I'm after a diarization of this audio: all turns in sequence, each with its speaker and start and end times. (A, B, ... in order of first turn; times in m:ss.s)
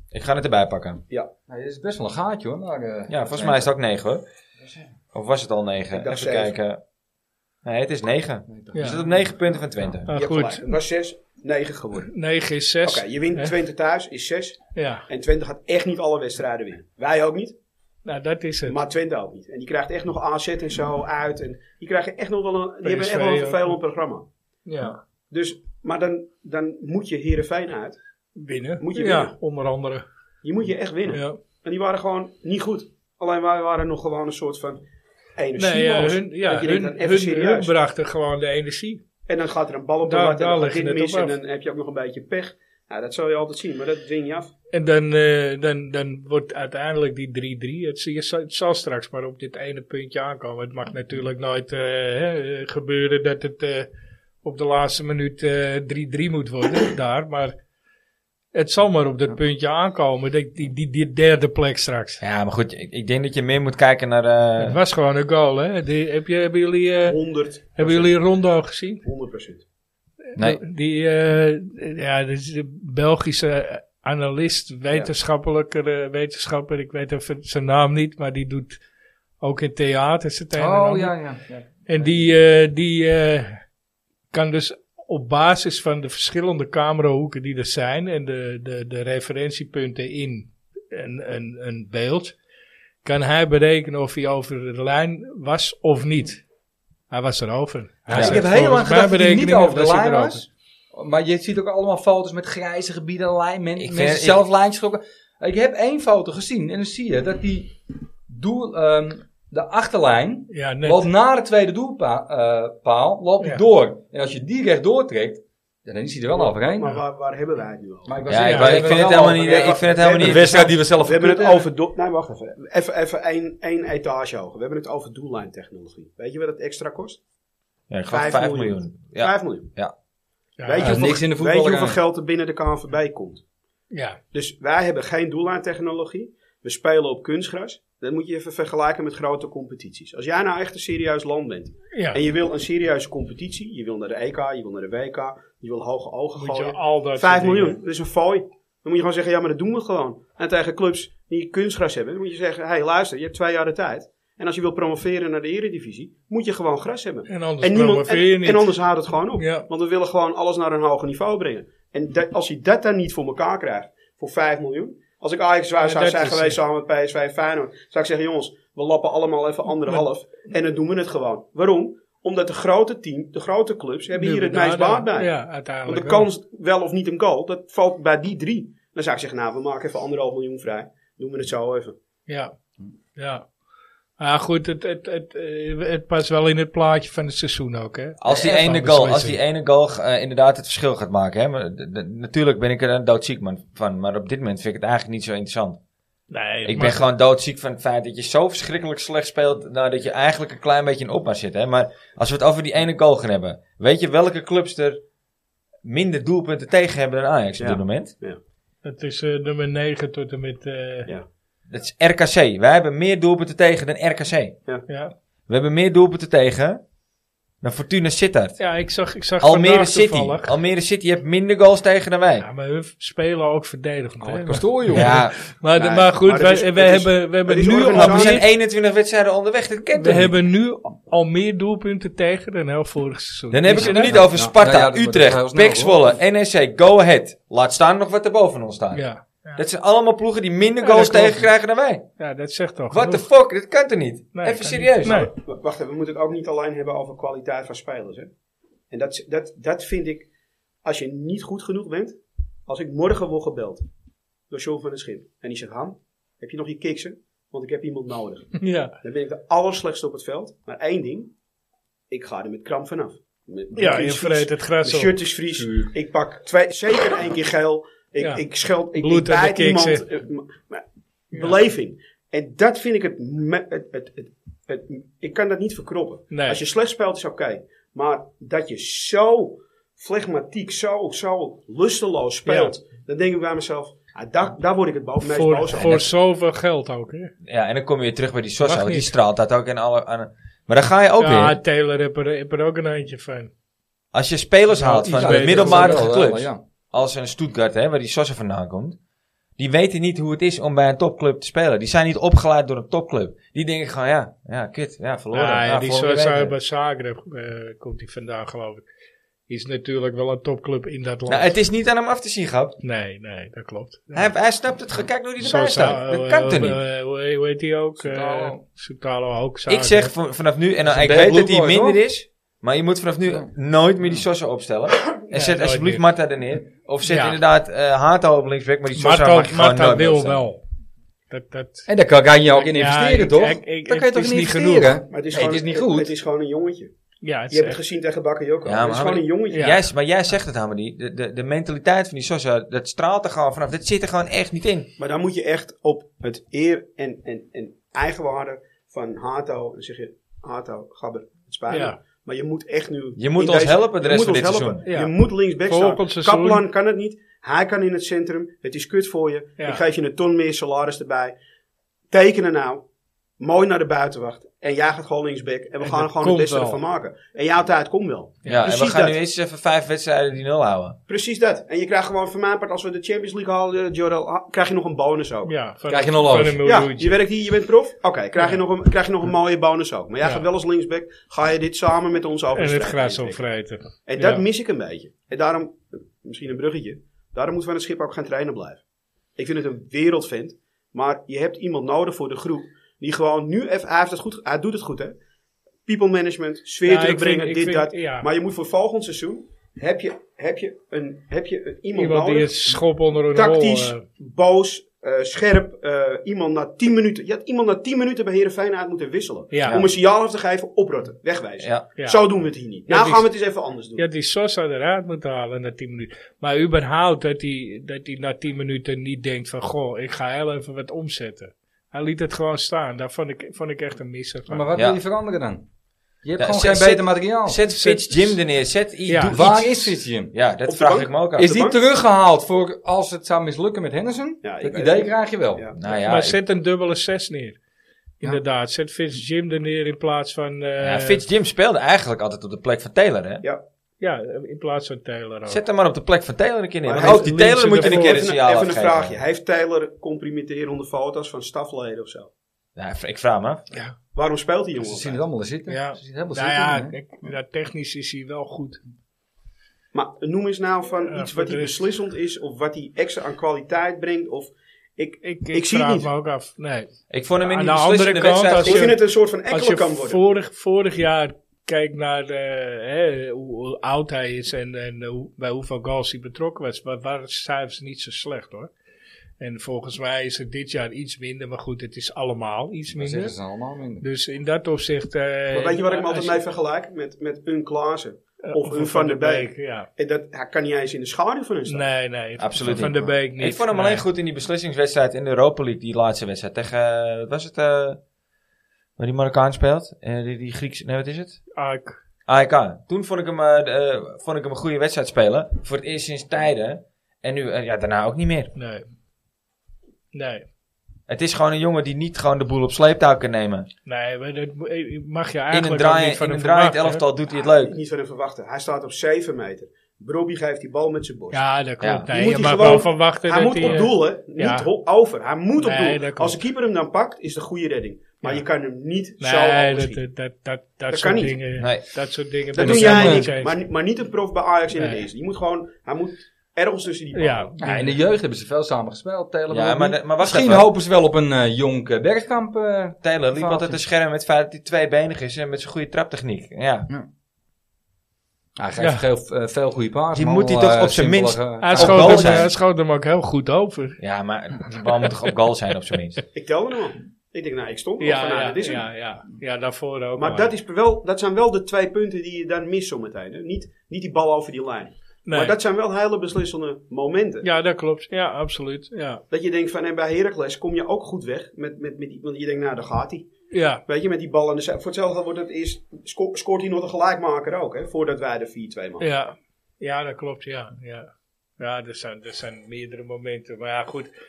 0:00.1-0:01.0 A
0:01.5-0:03.7 B
0:03.1-0:04.2 A
0:04.6-0:04.9 B
0:05.1-0:06.8 A
0:05.9-0:06.5 C
0:07.6-0:10.1 A
0:08.5-0:09.1 B
0:08.7-0:09.0 D
0:10.1-0:10.8 D
0:10.1-0:12.1 C
0:12.1-0:13.5 D
0:12.9-0:17.5 C
0:14.8-0:15.1 D
0:18.0-0:18.8 D
0:18.7-0:24.3 C
0:22.8-0:23.8 D
0:24.6-0:25.0 D
0:25.3-0:28.0 C
0:28.4-0:30.0 D
0:28.8-0:29.3 C
0:30.4-0:34.8 C
0:31.1-0:31.4 D
0:35.4-0:37.7 C
0:35.6-0:39.0 D
0:39.3-0:44.5 C
0:40.0-0:41.4 D
0:44.7-0:53.9 D
0:54.4-0:57.5 D
0:58.5-1:02.2 D
1:02.2-1:04.8 A
1:04.6-1:07.2 D
1:07.1-1:08.1 C
1:07.8-1:09.0 D
1:09.0-1:09.6 C
1:10.3-1:18.8 D
1:19.4-1:21.2 D
1:20.6-1:21.6 B
1:21.9-1:23.6 D
1:24.3-1:32.4 D
1:33.0-1:36.4 D
1:37.1-1:40.4 D
1:38.1-1:57.0 B
1:38.1-1:38.4 A
1:43.8-1:44.4 A
1:50.5-1:51.1 D
1:56.3-2:07.2 C
1:58.0-2:01.7 B
1:58.3-2:00.7 A
1:58.4-1:58.8 D
2:07.9-2:09.9 A
2:08.1-2:09.7 C
2:10.6-2:11.1 D
2:10.6-2:13.4 C
2:10.8-2:12.0 B
2:13.9-2:14.2 D
2:14.3-2:55.3 C
2:21.9-2:22.2 D
2:26.4-2:27.8 D
2:37.3-2:38.8 D
2:39.4-2:39.7 D
2:45.8-2:46.6 D
2:54.2-2:56.3 D
2:55.9-3:02.0 C
3:02.3-3:02.5 D
3:03.2-3:03.4 D
3:04.2-3:09.4 D
3:08.2-3:15.8 A
3:16.3-3:17.0 D
3:16.6-3:25.0 A
3:25.8-3:28.1 A
3:27.6-3:28.4 C
3:28.8-3:31.1 D
3:31.7-3:34.6 A
3:34.9-3:35.1 D
3:35.5-3:36.8 A
3:37.6-3:38.6 A
3:38.6-3:40.5 D
3:39.4-3:42.4 A
3:42.4-3:48.4 D
3:44.2-3:45.2 B
3:44.9-3:45.4 A
3:45.8-3:48.4 C
3:47.8-3:50.4 A
3:49.9-3:54.2 D
3:53.5-3:59.0 A
3:53.7-3:56.1 B
3:58.9-3:59.6 D
3:59.6-4:02.1 A
4:00.8-4:01.5 D
4:02.2-4:03.2 D
4:02.9-4:05.2 A
4:04.3-4:05.3 D
4:05.1-4:08.3 C
4:08.9-4:10.3 C
4:10.8-4:13.8 C
4:14.5-4:21.3 C
4:18.6-4:18.9 D
4:22.1-4:46.1 C
4:23.7-4:25.1 D
4:25.5-4:25.9 B
4:28.2-4:28.4 D
4:28.9-4:30.0 D
4:36.3-4:36.6 D
4:42.4-4:42.7 D
4:45.2-4:47.3 D
4:47.4-4:51.6 A
4:48.6-4:49.1 D
4:51.2-4:53.5 D
4:54.1-4:59.0 A
4:54.8-4:56.1 D
4:55.0-4:56.6 B
4:59.6-5:06.5 A
5:05.3-5:08.8 D
5:09.5-5:11.6 D
5:11.3-5:12.8 A
5:12.8-5:14.3 D
5:14.1-5:16.8 A
5:15.4-5:20.1 D
5:18.0-5:18.6 B
5:19.7-5:30.4 A
5:20.9-5:22.0 B
5:25.3-5:26.0 D
5:27.0-5:27.4 D
5:28.9-5:30.6 D
5:31.3-5:31.9 D
5:31.9-5:36.1 B
5:32.6-5:35.0 D
5:35.1-5:36.9 C
5:37.2-5:37.8 D
5:37.5-5:39.7 C
5:38.6-5:44.9 A
5:39.5-5:39.8 D
5:45.0-6:01.4 C
5:51.7-5:52.0 D
5:53.2-5:54.8 A
5:54.8-5:56.6 D
6:02.1-6:02.8 C
6:03.4-6:09.2 C
6:05.8-6:06.8 D
6:08.4-6:08.7 D
6:08.5-6:11.0 A
6:11.1-6:15.5 C
6:15.4-6:17.2 D
6:15.9-6:16.7 B
6:16.6-6:23.4 C
6:22.5-6:24.4 D
6:24.0-6:28.8 C
6:29.4-6:35.2 C
6:35.9-6:42.5 C
6:36.8-6:38.3 D
6:41.9-6:44.0 D
6:43.3-6:54.0 C
6:49.5-6:49.8 D
6:51.6-6:51.9 A
6:52.0-6:52.2 D
6:52.9-6:53.2 D
6:54.0-7:04.7 D
7:04.5-7:05.6 B
7:06.2-7:07.6 B
7:06.4-7:11.5 A
7:07.7-7:08.4 D
7:09.0-7:09.4 D
7:09.3-7:10.3 B
7:10.6-7:11.8 C
7:11.4-7:15.6 B
7:14.4-7:15.8 C
7:15.7-7:16.4 A
7:16.0-7:17.6 D
7:18.2-7:21.2 D
7:20.8-7:23.4 A
7:24.0-7:25.6 D
7:25.5-7:29.2 A
7:26.9-7:32.3 C
7:26.9-7:28.2 D
7:32.8-7:33.6 A
7:34.1-7:35.2 C
7:34.8-7:37.1 B
7:35.7-7:38.8 D
7:39.9-7:46.1 C
7:41.0-7:41.7 D
7:45.2-7:58.7 D
7:47.1-7:49.0 A
7:48.6-7:50.2 C
7:59.4-8:03.4 D
8:02.9-8:04.0 B
8:04.0-8:06.4 D
8:05.5-8:11.9 C
8:08.4-8:09.9 D
8:11.7-8:14.0 D
8:12.4-8:18.0 A
8:19.0-8:21.4 A
8:21.5-8:22.0 D
8:22.3-8:28.5 A
8:28.6-8:28.8 D
8:30.1-8:30.4 D
8:31.1-8:33.7 A
8:33.9-8:37.0 D
8:35.5-8:37.8 A
8:37.3-8:41.4 C
8:41.3-8:44.7 D
8:41.8-8:42.1 A
8:42.1-8:50.0 C
8:45.6-8:46.4 D
8:49.2-8:53.5 D
8:50.9-8:51.4 C
8:51.6-8:51.8 A
8:52.5-8:57.5 C
8:52.6-8:53.3 B
8:54.8-8:55.0 D
8:57.1-8:58.0 D
8:57.6-9:03.8 B
8:59.5-9:00.7 A
9:03.0-9:06.9 A
9:08.6-9:12.5 B
9:10.1-9:12.5 A
9:11.6-9:14.0 D
9:14.0-9:16.2 A
9:16.3-9:18.9 C
9:18.0-9:20.5 D
9:20.2-9:27.5 C
9:25.2-9:25.6 D
9:27.4-9:29.2 D
9:29.3-9:33.3 C
9:33.5-9:33.8 D
9:33.9-9:39.1 C
9:39.0-9:44.1 D